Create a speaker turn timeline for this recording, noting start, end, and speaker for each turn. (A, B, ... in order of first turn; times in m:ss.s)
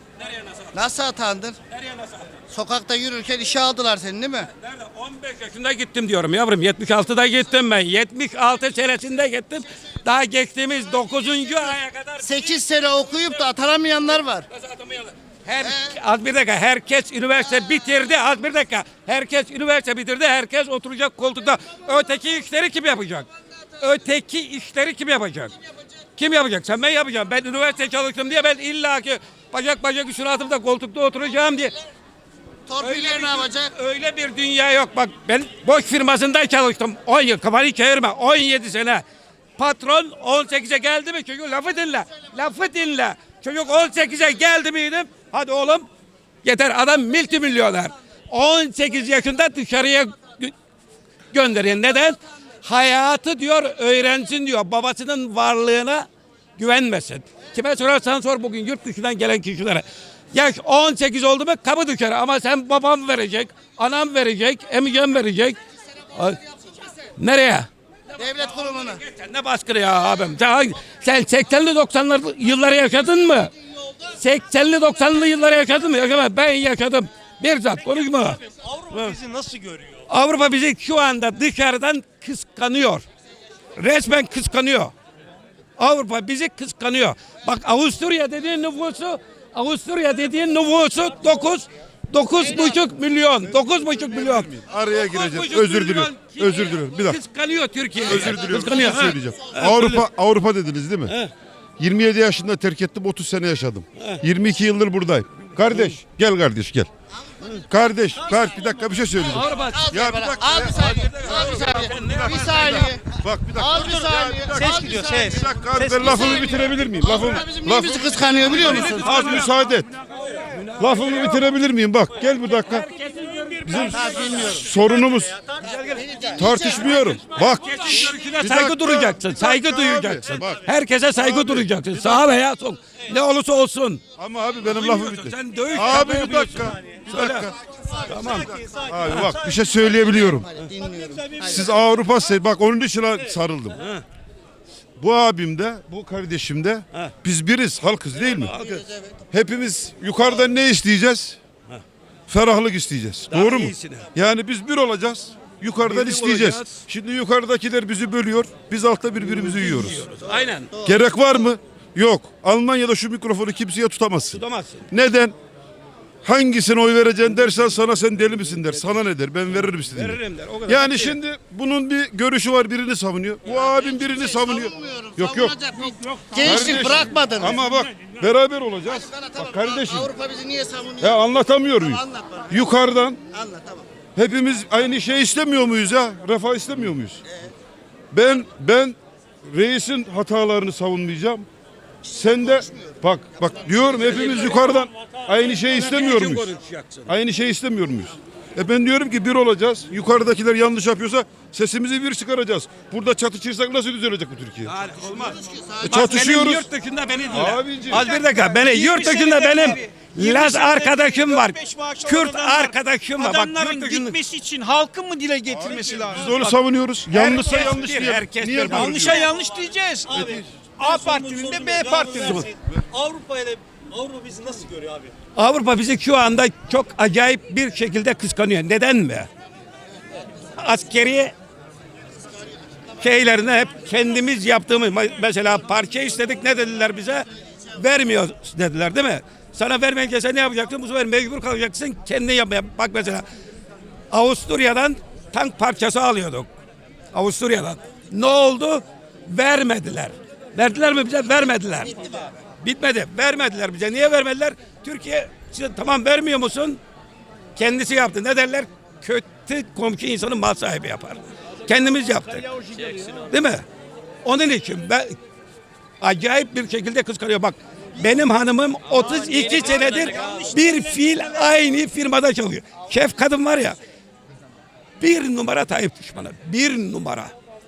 0:00.2-0:00.8 A
0:00.7-0:01.6 B
0:01.7-0:02.4 A
0:02.5-0:04.5 B
0:04.5-0:12.6 A
0:12.2-0:14.5 B
0:14.5-0:23.3 A
0:15.6-0:15.9 B
0:23.8-0:25.5 A
0:26.2-0:31.8 A
0:32.7-0:33.7 B
0:32.8-0:39.0 A
0:39.6-0:45.9 A
0:46.4-0:50.5 A
0:51.3-1:05.6 A
1:06.1-1:06.4 A
1:07.2-1:07.7 A
1:08.2-1:09.0 B
1:08.9-1:18.4 A
1:18.4-1:20.0 C
1:20.1-1:23.0 A
1:23.8-1:24.9 A
1:25.8-1:34.5 A
1:34.0-1:37.2 D
1:35.0-1:40.0 A
1:38.0-1:41.1 D
1:41.8-1:46.9 D
1:44.0-1:44.2 A
1:47.6-1:59.9 D
1:48.3-1:49.2 C
1:49.2-1:49.9 A
1:49.6-1:55.4 B
1:50.7-1:52.6 A
1:53.8-1:56.6 C
1:56.0-1:59.2 B
1:58.4-1:59.5 A
2:00.4-2:01.3 A
2:00.8-2:02.9 D
2:02.6-2:04.6 A
2:03.2-2:07.1 C
2:03.6-2:05.4 D
2:03.9-2:04.6 B
2:05.8-2:07.2 B
2:06.3-2:11.7 D
2:07.1-2:14.0 A
2:14.2-2:17.6 D
2:14.6-2:17.5 A
2:17.9-2:20.0 C
2:18.1-2:18.5 A
2:18.2-2:20.5 D
2:20.0-2:21.8 B
2:20.8-2:21.6 C
2:21.4-2:23.8 D
2:23.8-2:24.0 A
2:25.0-2:28.6 D
2:28.4-2:28.9 A
2:28.6-2:29.2 B
2:29.3-2:31.4 D
2:32.3-2:40.1 D
2:33.3-2:34.1 A
2:35.8-2:36.8 A
2:39.4-2:40.8 A
2:40.8-2:45.4 D
2:44.3-2:44.9 A
2:46.2-2:55.6 D
2:49.8-2:51.2 A
2:53.5-2:57.6 B
2:56.4-2:56.7 A
2:56.4-3:00.1 D
2:58.9-3:02.6 B
3:01.0-3:03.2 D
3:03.3-3:03.9 B
3:04.2-3:07.2 D
3:08.1-3:11.5 D
3:12.1-3:16.5 D
3:12.2-3:13.0 B
3:14.0-3:15.4 C
3:14.0-3:14.7 A
3:15.6-3:17.1 A
3:17.1-3:24.7 D
3:24.7-3:34.2 A
3:25.2-3:26.0 B
3:25.8-3:26.7 D
3:27.3-3:28.0 D
3:28.0-3:36.6 E
3:35.5-3:39.3 D
3:37.1-3:39.2 A
3:38.7-3:40.1 E
3:39.3-3:45.1 C
3:40.1-3:40.5 D
3:40.8-3:42.4 E
3:45.4-3:49.3 A
3:50.6-3:51.3 A
3:53.0-4:03.3 A
4:04.1-4:06.5 A
4:07.1-4:16.8 A
4:17.6-4:22.5 A
4:22.5-4:23.3 E
4:23.1-4:23.6 A
4:24.2-4:25.2 A
4:26.0-4:33.8 A
4:28.9-4:31.2 E
4:35.0-4:37.3 A